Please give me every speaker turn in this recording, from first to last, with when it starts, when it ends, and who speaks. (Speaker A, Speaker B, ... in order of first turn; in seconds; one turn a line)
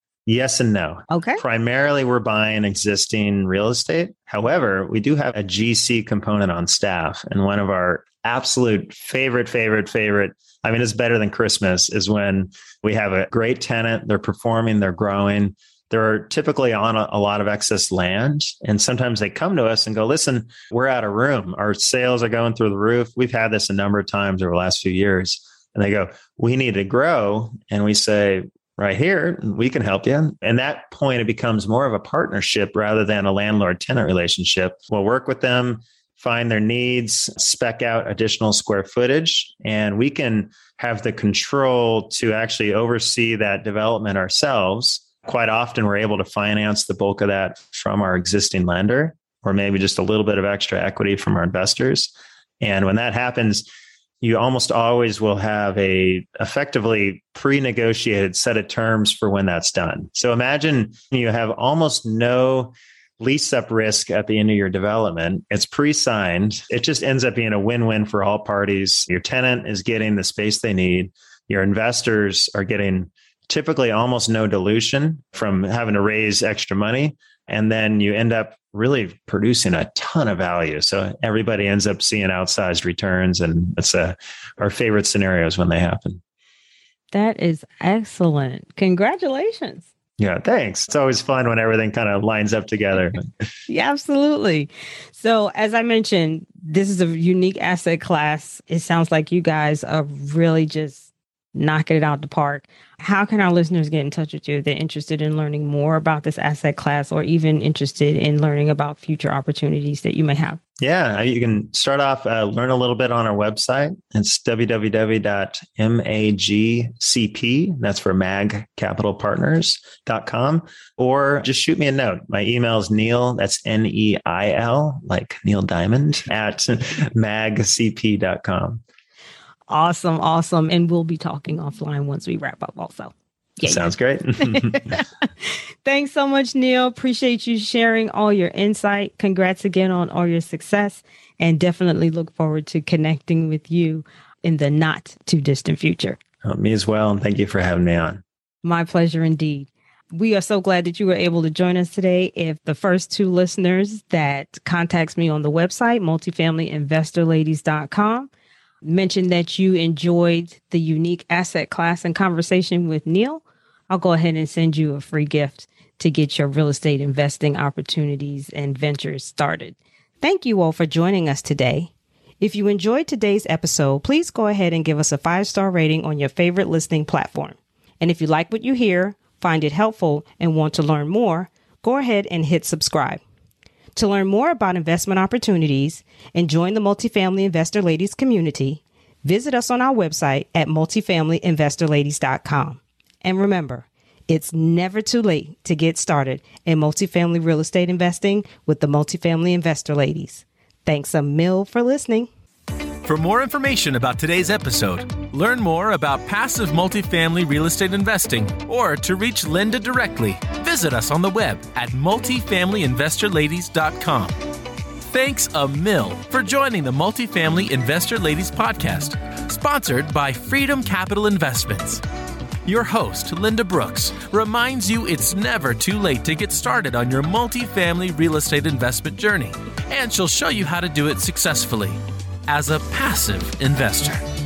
Speaker A: 0.3-53.7
Speaker B: 1.1-1.4
Speaker A: 54.2-86.2
Speaker B: 87.1-89.9
Speaker A: 90.2-93.3
Speaker B: 93.7-110.6
Speaker A: 110.8-128.8
Speaker B: 129.7-146.2
Speaker A: 133.7-135.0
Speaker A: 146.4-148.2
Speaker B: 148.6-158.3
Speaker B: 158.8-171.9
Speaker B: 172.4-183.2
Speaker B: 184.0-202.3
Speaker C: 203.0-214.4
Speaker C: 215.0-222.0
Speaker C: 222.7-234.2